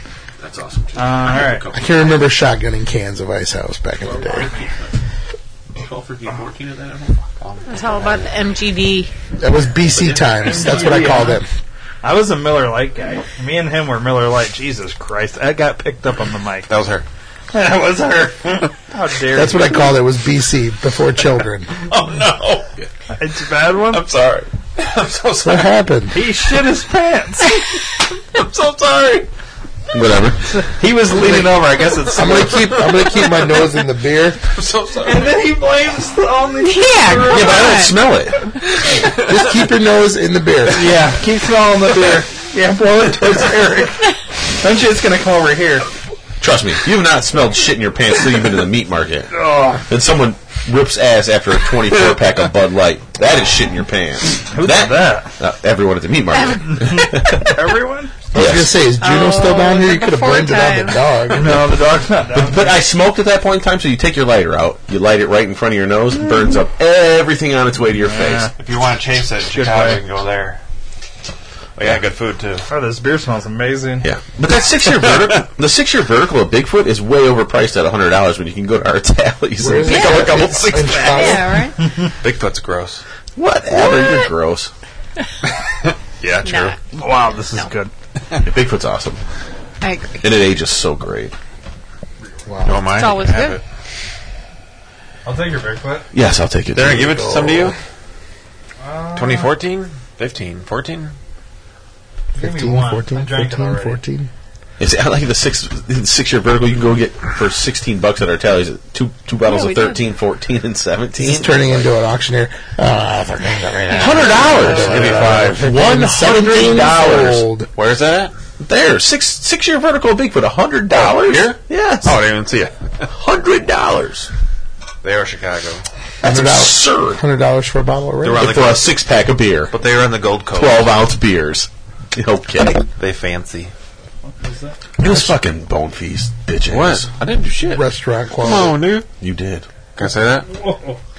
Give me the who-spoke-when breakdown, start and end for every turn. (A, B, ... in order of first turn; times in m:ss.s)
0:00.4-0:02.1 A
0:00.9-0:01.7 B
0:01.7-0:04.5 C
0:04.0-0:04.9 A
0:05.8-0:07.2 A
0:07.4-0:08.3 D
0:07.6-0:09.1 E
0:09.4-0:11.5 C
0:10.4-0:10.9 D
0:10.4-0:11.4 B
0:12.0-0:16.7 B
0:16.7-0:17.0 D
0:17.5-0:19.8 B
0:19.3-0:21.7 C
0:21.9-0:22.7 D
0:23.2-0:24.0 B
0:23.9-0:25.8 D
0:25.4-0:26.2 C
0:26.1-0:27.6 B
0:28.3-0:29.3 D
0:29.9-0:30.5 A
0:30.5-0:32.6 B
0:31.2-0:33.6 D
0:32.1-0:34.4 C
0:34.4-0:35.3 D
0:35.0-0:37.9 B
0:36.6-0:37.9 E
0:37.2-0:38.4 A
0:38.9-0:39.4 D
0:39.2-0:40.9 C
0:40.7-0:45.9 B
0:46.4-0:57.6 A
0:49.3-0:49.8 B
0:54.5-0:55.3 B
0:56.7-0:58.3 B
0:58.3-1:01.6 C
0:58.3-0:58.7 A
0:59.0-1:01.1 E
1:01.3-1:02.8 B
1:02.3-1:08.5 A
1:08.0-1:08.5 B
1:08.6-1:10.6 D
1:09.5-1:10.0 B
1:11.8-1:12.6 D
1:12.7-1:14.0 B
1:14.0-1:21.3 A
1:19.6-1:21.6 C
1:19.8-1:20.4 E
1:20.9-1:21.8 E
1:22.2-1:23.0 D
1:23.4-1:24.7 A
1:23.8-1:24.2 E
1:25.8-1:26.7 D
1:26.4-1:26.8 E
1:26.9-1:27.9 B
1:28.4-1:29.2 A
1:29.8-1:30.2 E
1:30.2-1:31.3 A
1:32.4-1:32.8 C
1:32.6-1:33.6 D
1:32.9-1:33.6 E
1:35.2-1:36.0 B
1:36.1-1:37.3 A
1:36.7-1:37.8 D
1:37.0-1:37.7 C
1:38.8-1:39.5 B
1:39.1-1:41.1 D
1:42.4-1:44.0 B
1:42.4-1:44.3 C
1:44.8-1:51.9 A
1:49.4-1:50.0 E
1:51.2-1:57.7 C
1:53.7-1:55.6 D
1:53.9-1:57.4 A
1:54.1-1:54.7 E
1:57.7-1:58.3 D
1:58.6-2:02.2 A
2:00.9-2:03.1 D
2:03.1-2:04.3 A
2:05.0-2:05.8 D
2:06.2-2:07.2 A
2:06.2-2:08.5 C
2:08.2-2:08.9 D
2:08.4-2:09.7 A
2:09.7-2:11.0 D
2:10.5-2:12.8 A
2:12.9-2:13.7 D
2:14.4-2:14.8 B
2:15.0-2:17.1 A
2:16.7-2:17.8 D
2:17.6-2:18.8 C
2:18.4-2:19.1 D
2:19.2-2:19.7 A
2:20.0-2:20.5 D
2:20.5-2:21.0 B